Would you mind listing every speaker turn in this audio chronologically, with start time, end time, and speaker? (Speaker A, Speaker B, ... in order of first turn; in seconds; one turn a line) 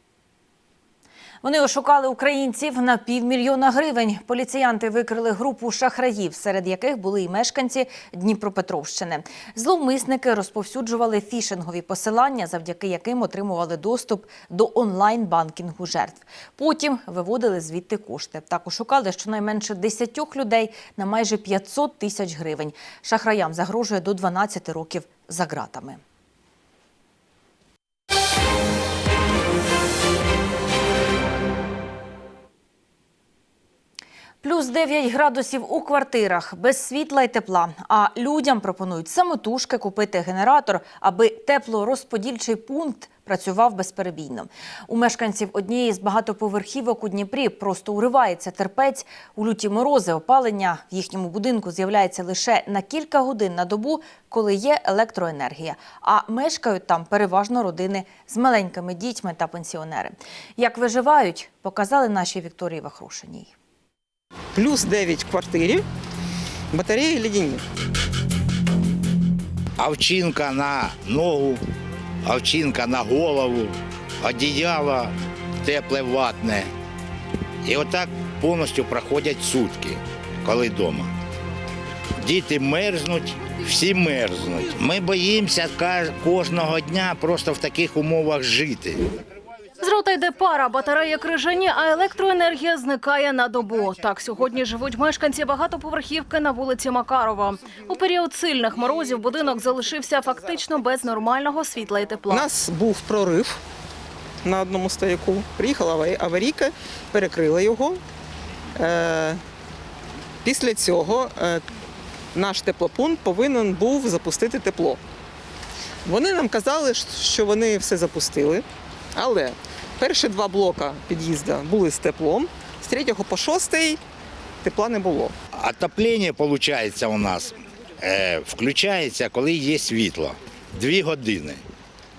Speaker A: 1.4-26.0
Speaker A: 34.4-63.5
Speaker B: 64.5-65.8
Speaker B: 66.7-67.6
Speaker C: 69.8-71.6
Speaker C: 72.2-76.7
Speaker C: 77.6-81.1
Speaker C: 82.2-89.0
Speaker D: 89.8-102.4
Speaker B: 102.3-103.6
Speaker B: 104.4-108.0
Speaker B: 108.8-109.4
Speaker B: 110.4-111.6
Speaker B: 112.3-115.0
Speaker B: 116.0-124.0
Speaker B: 124.6-125.3
Speaker C: 125.5-131.6